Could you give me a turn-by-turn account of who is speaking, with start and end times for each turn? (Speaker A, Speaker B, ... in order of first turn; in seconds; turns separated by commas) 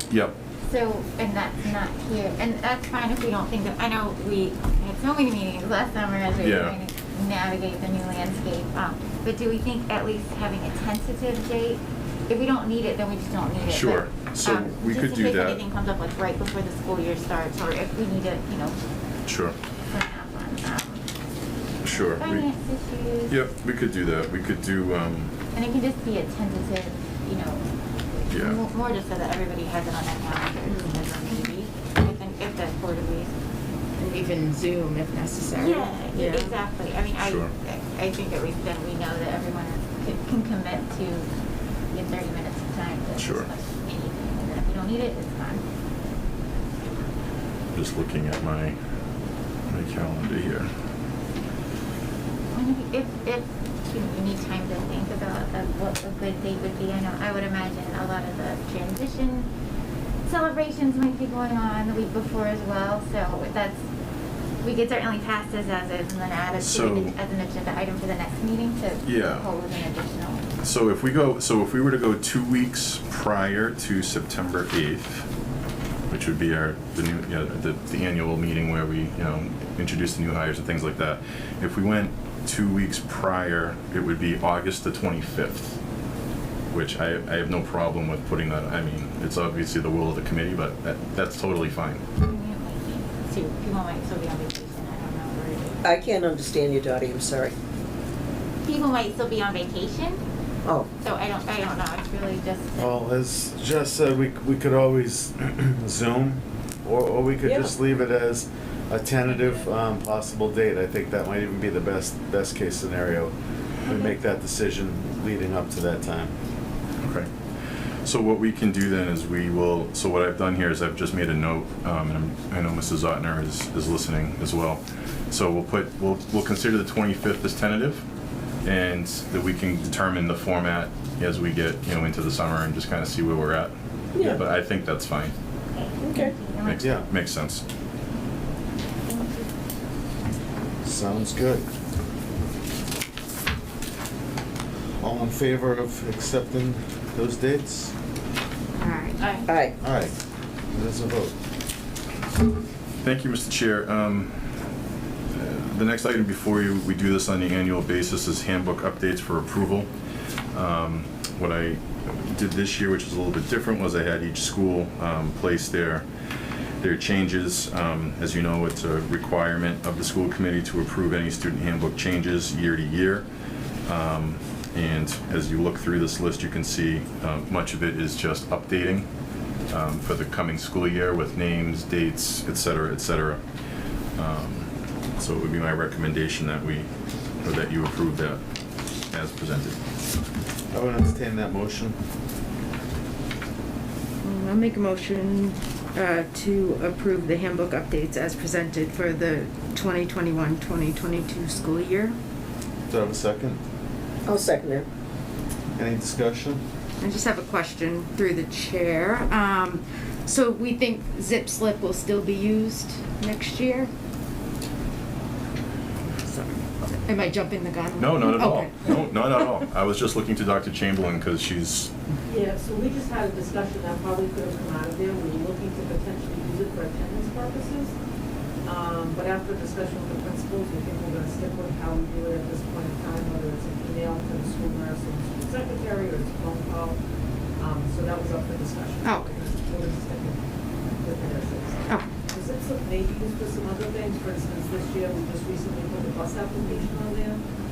Speaker A: 0.1-0.3, Speaker B: 0.6-18.8, Speaker A: 6.4-6.8, Speaker A: 13.6-15.6, Speaker A: 19.3-19.6, Speaker B: 19.9-21.0, Speaker A: 21.8-22.5, Speaker B: 22.2-23.4, Speaker A: 23.3-25.3, Speaker B: 25.5-27.6, Speaker B: 28.3-33.3, Speaker A: 28.3-28.6, Speaker C: 30.7-31.0, Speaker C: 34.0-36.5, Speaker B: 35.6-41.3, Speaker A: 37.2-37.5, Speaker B: 41.9-45.6, Speaker A: 43.2-43.5, Speaker A: 47.7-48.8, Speaker A: 49.7-50.7, Speaker B: 52.5-59.5, Speaker B: 60.2-63.8, Speaker B: 64.6-70.5, Speaker A: 66.6-67.2, Speaker A: 69.0-69.5, Speaker A: 70.6-75.3, Speaker A: 76.1-85.8, Speaker A: 86.7-92.0, Speaker B: 92.2-95.8, Speaker D: 95.8-97.5, Speaker B: 98.6-100.2, Speaker B: 101.0-103.1, Speaker E: 102.8-113.3, Speaker D: 107.4-107.7, Speaker B: 109.3-109.6, Speaker E: 113.9-116.3, Speaker A: 117.0-117.3, Speaker A: 118.0-128.0, Speaker A: 128.6-135.3, Speaker D: 134.2-134.4, Speaker D: 136.0-136.3, Speaker B: 136.1-137.0, Speaker A: 136.6-137.6, Speaker E: 140.8-141.7, Speaker E: 145.0-147.9, Speaker C: 148.8-149.3, Speaker B: 149.2-149.5, Speaker D: 149.5-149.8, Speaker E: 149.8-150.1, Speaker E: 150.7-151.3, Speaker A: 153.0-154.3, Speaker A: 155.3-159.9, Speaker A: 160.5-166.1, Speaker A: 166.8-173.2, Speaker A: 173.9-179.1, Speaker A: 179.7-183.4, Speaker A: 184.2-186.9, Speaker A: 187.4-188.4, Speaker A: 189.1-189.8, Speaker E: 190.7-192.0, Speaker C: 194.2-202.2, Speaker E: 202.9-203.6, Speaker D: 204.3-204.9, Speaker E: 205.8-206.6, Speaker C: 207.0-213.9, Speaker C: 216.2-219.0, Speaker A: 218.0-221.9, Speaker F: 222.3-227.9, Speaker F: 228.6-237.0, Speaker F: 237.6-240.4, Speaker C: 239.0-239.3, Speaker F: 241.0-247.4